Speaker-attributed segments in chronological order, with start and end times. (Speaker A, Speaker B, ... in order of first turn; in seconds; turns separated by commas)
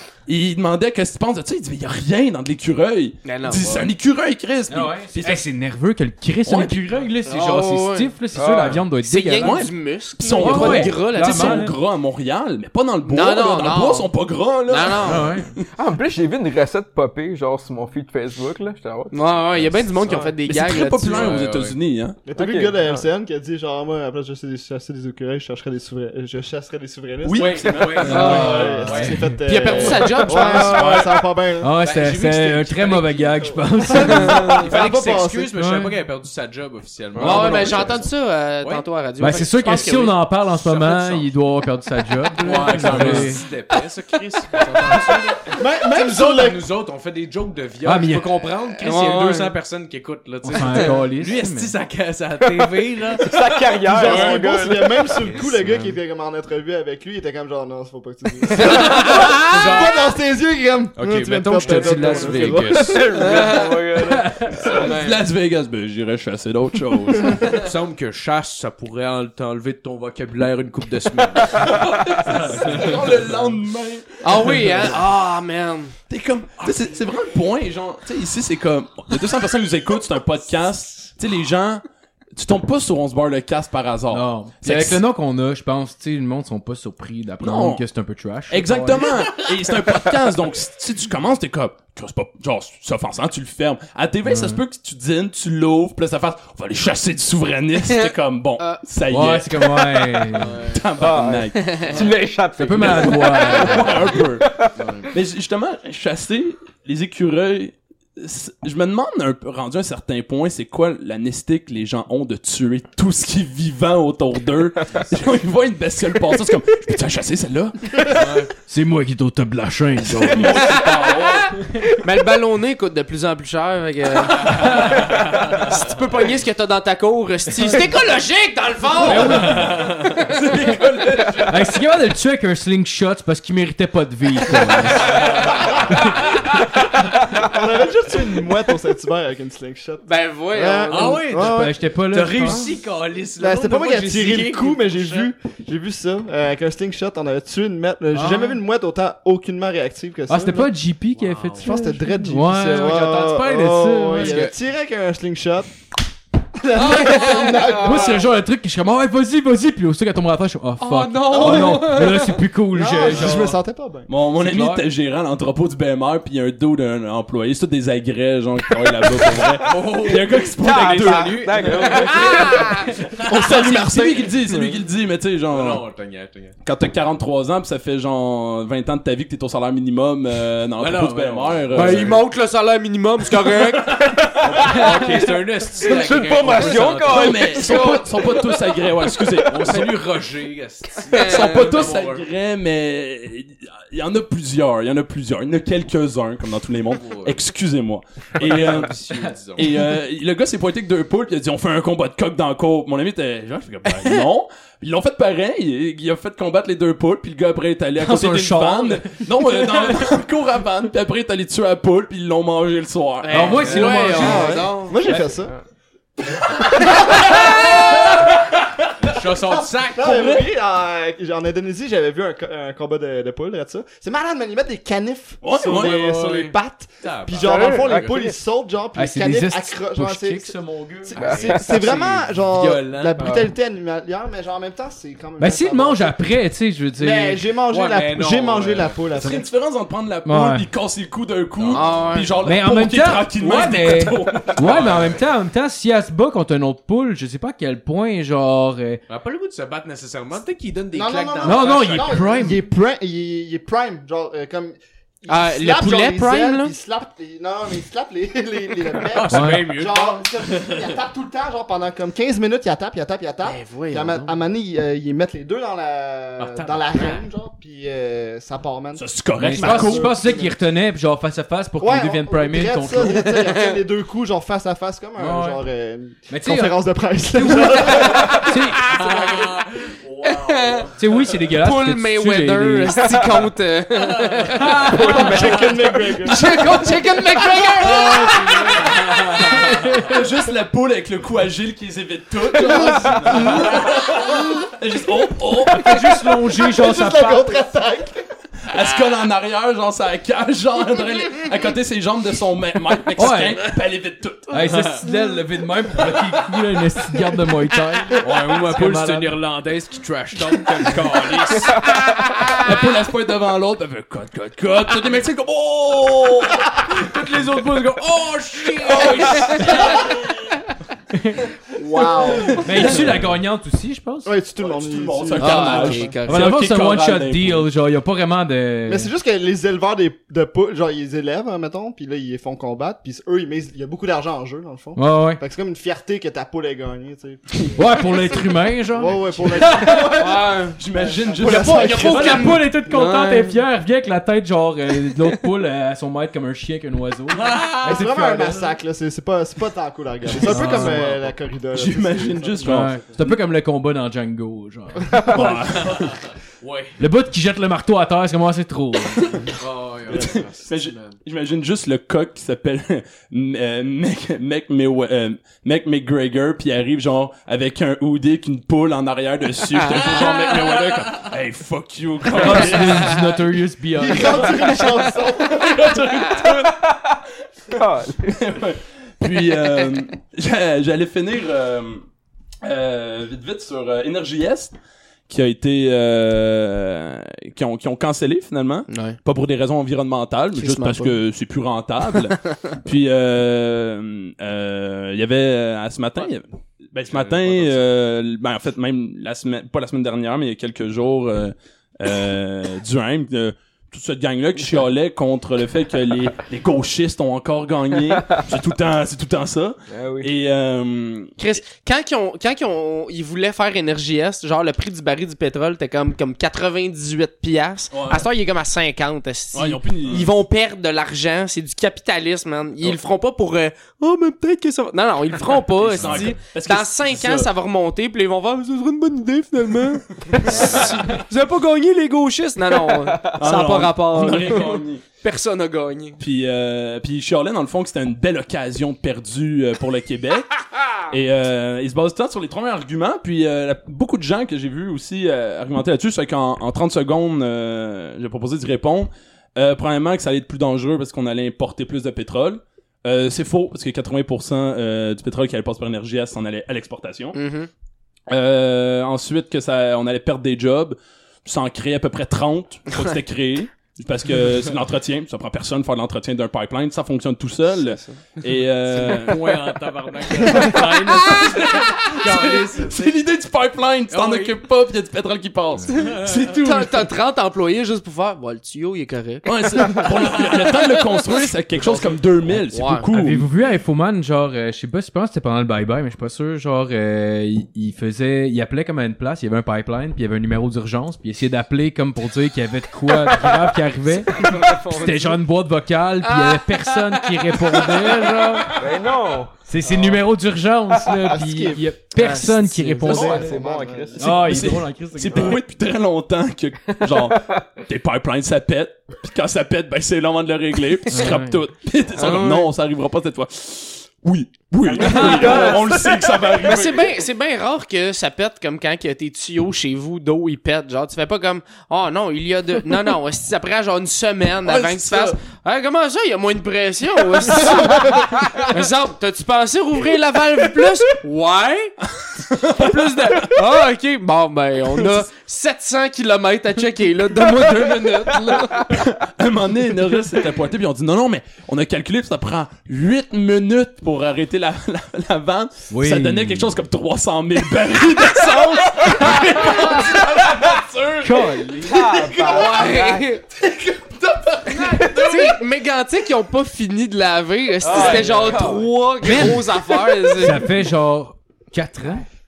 Speaker A: 0.3-5.5, Speaker B: 3.2-3.9, Speaker C: 4.7-9.6, Speaker A: 6.5-7.0, Speaker B: 7.2-8.1, Speaker D: 8.3-8.9, Speaker B: 9.0-11.7, Speaker A: 9.4-15.4, Speaker C: 10.4-11.7, Speaker B: 13.0-14.1, Speaker B: 14.7-15.3, Speaker C: 15.0-15.5, Speaker D: 15.8-19.2, Speaker B: 19.1-21.4, Speaker A: 20.0-22.2, Speaker E: 21.0-21.8, Speaker F: 22.2-31.7, Speaker D: 22.4-23.0, Speaker A: 27.2-28.6, Speaker E: 27.3-31.1, Speaker C: 28.0-29.4, Speaker B: 29.4-31.0, Speaker A: 30.5-31.1, Speaker C: 31.6-34.6, Speaker E: 31.7-38.1, Speaker F: 33.9-35.5, Speaker B: 34.0-34.5, Speaker C: 35.6-36.0, Speaker C: 37.2-37.7, Speaker B: 37.2-40.2, Speaker C: 39.2-43.4, Speaker E: 40.5-41.3, Speaker E: 42.4-54.5, Speaker F: 45.5-46.7, Speaker C: 47.8-48.3, Speaker B: 48.8-49.5, Speaker C: 50.4-51.7, Speaker D: 52.5-55.2, Speaker F: 53.8-63.2, Speaker E: 55.1-55.9, Speaker E: 58.6-60.0, Speaker B: 58.8-59.3, Speaker E: 61.0-63.6, Speaker D: 61.9-65.2, Speaker B: 63.2-63.8, Speaker C: 64.1-64.5, Speaker A: 64.6-67.6, Speaker E: 67.5-73.5, Speaker A: 71.6-75.0, Speaker B: 74.2-75.9, Speaker A: 76.1-81.8, Speaker A: 82.3-85.0, Speaker C: 84.1-89.1, Speaker A: 87.4-87.8, Speaker A: 88.5-102.1, Speaker C: 94.2-94.6, Speaker B: 97.8-98.8, Speaker C: 99.1-100.5, Speaker E: 100.3-100.9, Speaker D: 101.0-104.8, Speaker B: 101.6-101.9, Speaker C: 102.6-104.1, Speaker A: 102.8-104.5, Speaker E: 104.8-105.1, Speaker A: 105.1-118.3, Speaker E: 118.0-118.5, Speaker C: 118.7-120.6, Speaker A: 120.1-121.6, Speaker B: 120.5-121.4, Speaker B: 121.9-130.4, Speaker E: 124.3-125.7, Speaker C: 129.0-129.8, Speaker E: 129.3-130.2, Speaker A: 130.3-131.6, Speaker C: 131.5-135.3, Speaker E: 135.0-135.8, Speaker C: 135.8-136.5, Speaker F: 137.4-141.8, Speaker B: 140.0-141.2, Speaker E: 140.9-145.3, Speaker C: 141.3-142.6, Speaker F: 142.4-142.7, Speaker F: 143.3-150.8, Speaker C: 148.1-148.6, Speaker C: 150.3-154.4, Speaker E: 151.1-151.7, Speaker F: 151.6-155.7, Speaker E: 154.2-154.5, Speaker F: 156.6-158.2, Speaker B: 156.8-158.2, Speaker C: 157.7-163.6, Speaker B: 160.8-162.4, Speaker F: 161.3-161.9, Speaker F: 162.7-164.1, Speaker E: 163.1-163.5, Speaker A: 164.1-171.5, Speaker C: 164.3-164.8, Speaker E: 169.6-173.5, Speaker D: 169.8-172.7, Speaker B: 171.9-172.9, Speaker A: 173.2-175.8, Speaker F: 173.3-174.3, Speaker E: 175.5-176.6, Speaker A: 176.6-182.2, Speaker E: 180.8-182.2, Speaker B: 181.7-184.0, Speaker A: 183.7-184.8, Speaker E: 184.4-187.6, Speaker D: 184.7-188.1, Speaker A: 186.5-190.0, Speaker B: 187.6-188.4, Speaker E: 189.5-192.3, Speaker B: 191.1-191.7, Speaker A: 191.1-199.0, Speaker E: 196.9-197.4, Speaker E: 198.4-199.8, Speaker A: 199.5-214.0, Speaker C: 208.0-209.3, Speaker B: 213.2-215.0, Speaker C: 213.3-215.3, Speaker E: 213.4-214.4, Speaker F: 214.0-215.5, Speaker A: 216.6-218.3, Speaker F: 216.8-217.7, Speaker E: 219.1-220.3, Speaker F: 219.6-236.2, Speaker A: 220.0-220.4, Speaker A: 225.4-226.0, Speaker E: 225.5-228.1, Speaker D: 227.4-228.3, Speaker C: 229.0-231.2, Speaker E: 231.2-233.5, Speaker D: 231.2-231.7, Speaker C: 235.4-237.4, Speaker F: 237.0-239.5, Speaker E: 237.7-239.0, Speaker A: 239.1-245.1, Speaker C: 240.2-240.7, Speaker E: 241.6-242.1, Speaker B: 241.7-242.4, Speaker C: 242.4-249.0, Speaker E: 244.6-245.2, Speaker E: 249.1-252.4, Speaker F: 250.9-270.6, Speaker C: 251.4-252.6, Speaker B: 255.3-256.7, Speaker E: 259.1-260.9, Speaker C: 259.3-259.6, Speaker B: 263.4-264.3, Speaker E: 266.4-267.2, Speaker A: 269.0-270.1, Speaker C: 269.4-273.3, Speaker F: 271.8-278.4, Speaker B: 273.1-273.8, Speaker C: 275.2-275.6, Speaker C: 276.3-276.8, Speaker C: 277.3-278.8, Speaker B: 278.2-279.5, Speaker E: 278.8-280.9, Speaker B: 280.2-280.9, Speaker C: 280.9-283.1, Speaker B: 281.6-285.2, Speaker E: 284.1-284.7, Speaker C: 284.6-285.0, Speaker D: 284.9-286.3, Speaker F: 284.9-286.8, Speaker B: 286.2-288.8, Speaker F: 287.4-288.5, Speaker E: 287.9-290.1, Speaker C: 289.7-290.0, Speaker A: 290.0-296.2, Speaker F: 293.1-293.8, Speaker C: 295.8-297.6, Speaker F: 295.9-298.2, Speaker A: 298.7-304.6, Speaker C: 303.2-303.6, Speaker C: 304.5-309.4, Speaker E: 304.6-305.1, Speaker E: 308.2-311.9, Speaker A: 312.5-317.2, Speaker E: 316.8-320.0, Speaker A: 318.8-320.5, Speaker C: 321.1-321.4, Speaker F: 321.7-323.1, Speaker A: 322.4-323.3, Speaker C: 322.6-324.3, Speaker F: 324.2-326.1, Speaker A: 324.6-327.7, Speaker B: 325.4-326.4, Speaker C: 326.2-329.1, Speaker F: 328.9-340.3, Speaker C: 335.0-335.4, Speaker C: 337.8-339.8, Speaker A: 339.6-342.5, Speaker B: 340.2-340.8, Speaker F: 341.0-342.5, Speaker B: 341.4-343.6, Speaker C: 341.9-348.5, Speaker E: 347.4-348.1, Speaker F: 347.8-353.1, Speaker A: 350.4-350.9, Speaker C: 350.4-351.1, Speaker E: 350.8-351.2, Speaker A: 351.7-353.4, Speaker C: 352.6-355.1, Speaker A: 355.3-356.1, Speaker E: 355.7-357.0, Speaker C: 357.0-359.4, Speaker E: 359.6-361.2, Speaker A: 360.1-373.2, Speaker E: 370.0-371.3, Speaker C: 372.3-374.7, Speaker F: 372.4-372.7, Speaker E: 372.5-372.7, Speaker F: 374.0-375.7, Speaker A: 374.6-376.9, Speaker D: 376.8-377.1, Speaker D: 377.7-378.4, Speaker A: 378.3-382.0, Speaker A: 382.6-384.7, Speaker A: 385.3-411.3, Speaker B: 388.9-389.2, Speaker F: 390.6-391.1, Speaker B: 390.6-391.1, Speaker E: 397.1-397.8, Speaker D: 409.9-410.3, Speaker B: 411.4-436.2, Speaker A: 417.9-418.2, Speaker A: 419.5-420.3, Speaker A: 425.8-427.5, Speaker A: 430.5-431.0, Speaker D: 433.1-433.4, Speaker A: 433.4-435.0, Speaker A: 436.2-440.5, Speaker A: 441.1-457.4, Speaker B: 457.3-457.7, Speaker A: 458.3-469.7, Speaker B: 467.8-468.2, Speaker E: 468.9-473.2, Speaker A: 470.4-477.1, Speaker E: 474.1-474.6, Speaker B: 475.9-480.3, Speaker E: 475.9-476.6, Speaker A: 479.4-483.5, Speaker B: 481.8-483.1, Speaker C: 483.1-494.4, Speaker D: 494.3-495.4, Speaker C: 495.0-498.7, Speaker B: 496.2-498.7, Speaker D: 498.8-500.2, Speaker C: 499.6-503.5, Speaker F: 501.1-502.3, Speaker B: 502.1-502.8, Speaker F: 503.0-504.4, Speaker D: 503.0-504.5, Speaker C: 504.2-505.6, Speaker A: 504.2-517.1, Speaker D: 507.1-507.6, Speaker C: 511.1-511.6, Speaker B: 512.1-512.7, Speaker D: 514.9-516.7, Speaker C: 515.0-515.6, Speaker B: 515.4-515.8, Speaker B: 516.6-531.9, Speaker A: 524.6-525.4, Speaker A: 532.2-533.6, Speaker B: 532.8-538.9, Speaker A: 534.9-535.2, Speaker A: 538.9-551.4, Speaker C: 545.9-546.8, Speaker C: 551.2-552.0, Speaker D: 551.8-553.3, Speaker A: 551.9-552.8, Speaker B: 552.4-553.4, Speaker A: 553.6-555.4, Speaker B: 554.8-560.7, Speaker D: 557.8-559.0, Speaker A: 557.9-558.2, Speaker C: 559.2-559.6, Speaker C: 560.3-562.2